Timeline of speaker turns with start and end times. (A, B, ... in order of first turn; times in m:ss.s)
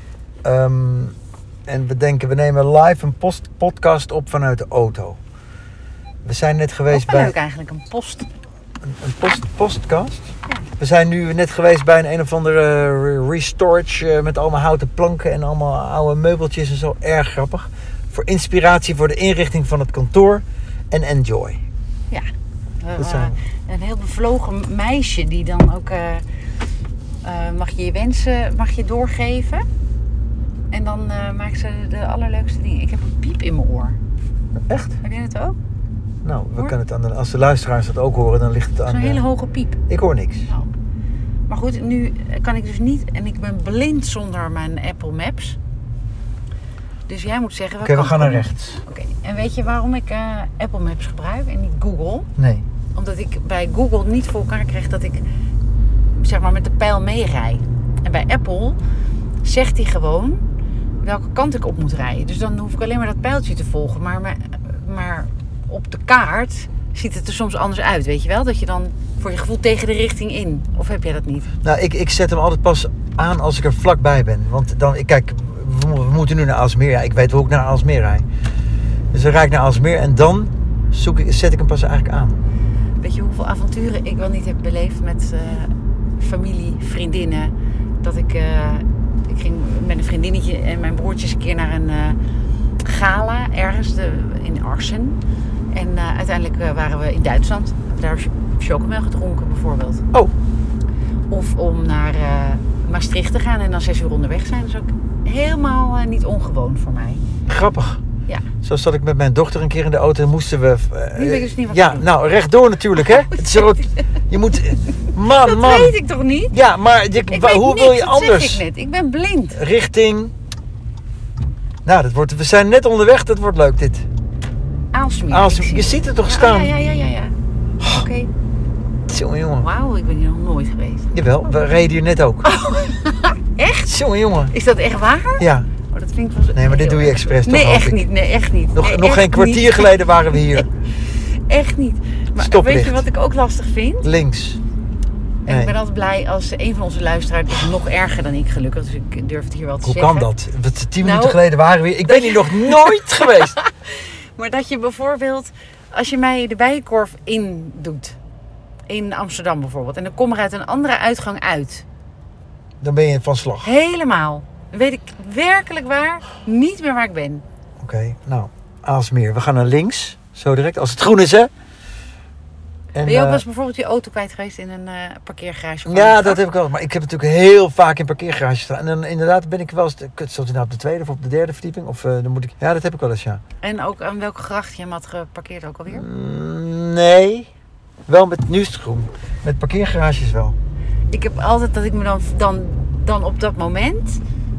0:00.4-0:01.1 A
0:01.7-0:05.2 A
0:06.2-0:07.3 A
0:06.9-0:08.3 B
0:08.8-0:21.6 A
0:22.8-0:26.2 B
0:23.0-0:23.3 A
0:27.2-0:29.6 B
0:30.7-0:34.0 B
0:34.7-0:35.0 A
0:35.0-0:35.6 B
0:36.2-0:39.2 A
0:38.8-0:39.8 B
0:39.9-0:40.5 A
0:41.5-0:45.6 B
0:47.1-0:52.3 B
0:47.8-0:48.8 A
0:52.4-0:52.6 A
0:52.9-0:55.2 B
0:56.1-0:58.8 B
0:59.4-1:00.4 B
1:01.0-1:11.5 B
1:11.6-1:18.2 A
1:19.1-1:22.4 A
1:23.0-1:32.2 B
1:32.8-1:35.2 B
1:35.7-1:40.0 B
1:41.3-1:47.2 B
1:47.5-1:48.0 A
1:48.6-1:55.9 A
1:51.2-1:52.1 B
1:52.9-1:54.0 B
1:55.3-1:56.6 B
1:56.5-1:58.6 A
1:57.2-1:59.6 B
1:59.5-2:00.3 A
2:01.8-2:04.0 A
2:04.9-2:08.3 B
2:05.3-2:06.7 A
2:07.8-2:08.0 A
2:09.1-2:09.7 A
2:09.6-2:11.1 B
2:11.1-2:12.5 A
2:12.4-2:13.9 B
2:13.8-2:14.5 A
2:14.5-2:24.1 B
2:15.4-2:15.7 A
2:16.5-2:18.0 A
2:18.7-2:20.7 A
2:22.4-2:23.0 A
2:24.0-2:24.6 A
2:25.4-2:25.8 A
2:25.4-2:30.3 B
2:29.8-2:33.6 A
2:31.0-2:31.4 B
2:32.0-2:38.2 B
2:38.9-2:41.8 B
2:42.8-2:43.7 A
2:43.6-2:47.4 B
2:47.8-2:51.5 A
2:52.9-2:53.4 A
2:53.0-2:56.4 B
2:55.8-3:03.4 A
3:03.6-3:06.0 B
3:05.9-3:07.5 A
3:08.1-3:10.6 A
3:11.1-3:14.2 B